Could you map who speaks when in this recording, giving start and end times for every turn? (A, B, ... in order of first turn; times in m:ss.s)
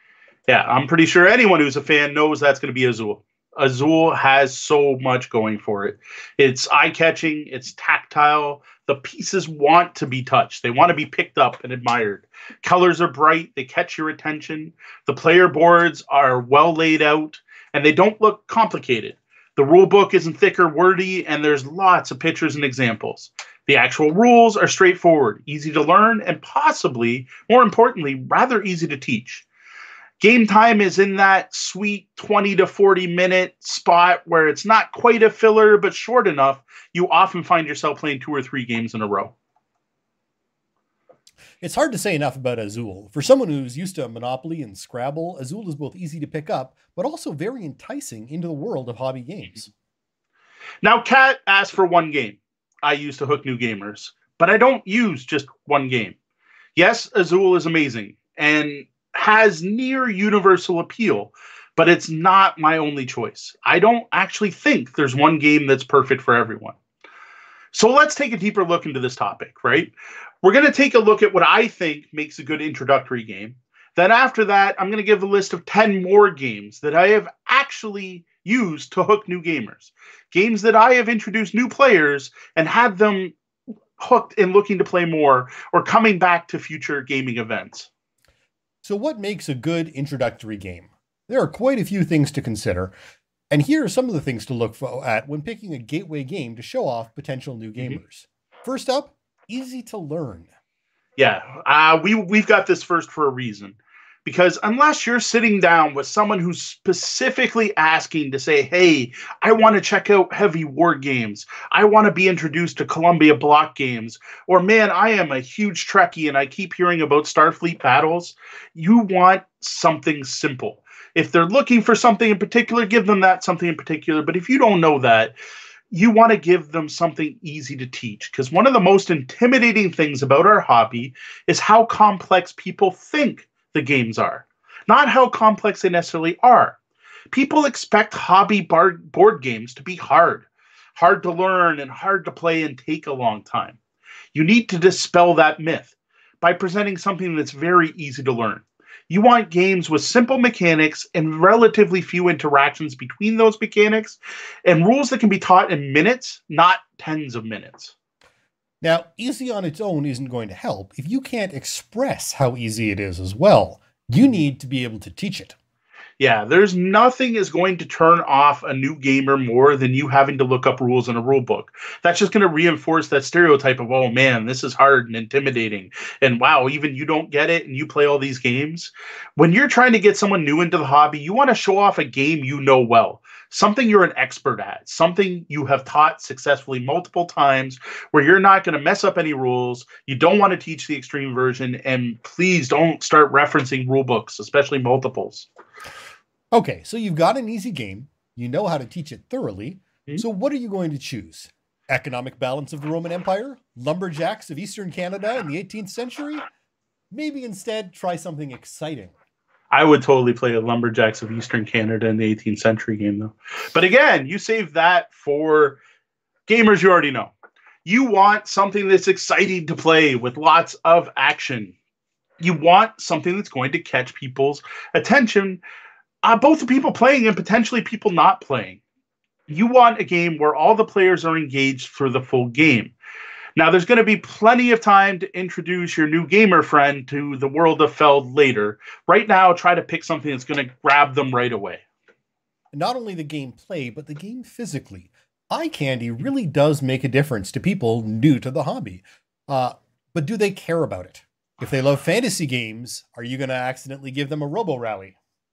0:00.5-0:29.4 A
0:30.2-0:39.3 A
0:41.6-0:49.7 B
0:50.8-0:56.1 A
0:56.8-1:06.8 A
1:07.7-1:09.9 A
1:10.4-1:23.3 A
1:24.0-1:27.9 A
1:28.8-1:32.9 B
1:33.5-1:40.5 B
1:41.2-2:05.3 A
2:05.9-2:16.8 A
2:17.3-2:23.8 A
2:24.3-2:37.9 A
2:38.8-2:45.5 B
2:46.2-3:15.5 A
3:16.5-3:26.5 B
3:27.1-3:29.1 B
3:29.7-3:35.8 A
3:36.5-3:37.3 A
3:37.8-3:41.7 A
3:42.4-3:45.6 A
3:46.2-3:48.8 A
3:49.5-3:52.9 A
3:53.6-4:01.8 A
4:02.7-4:15.2 B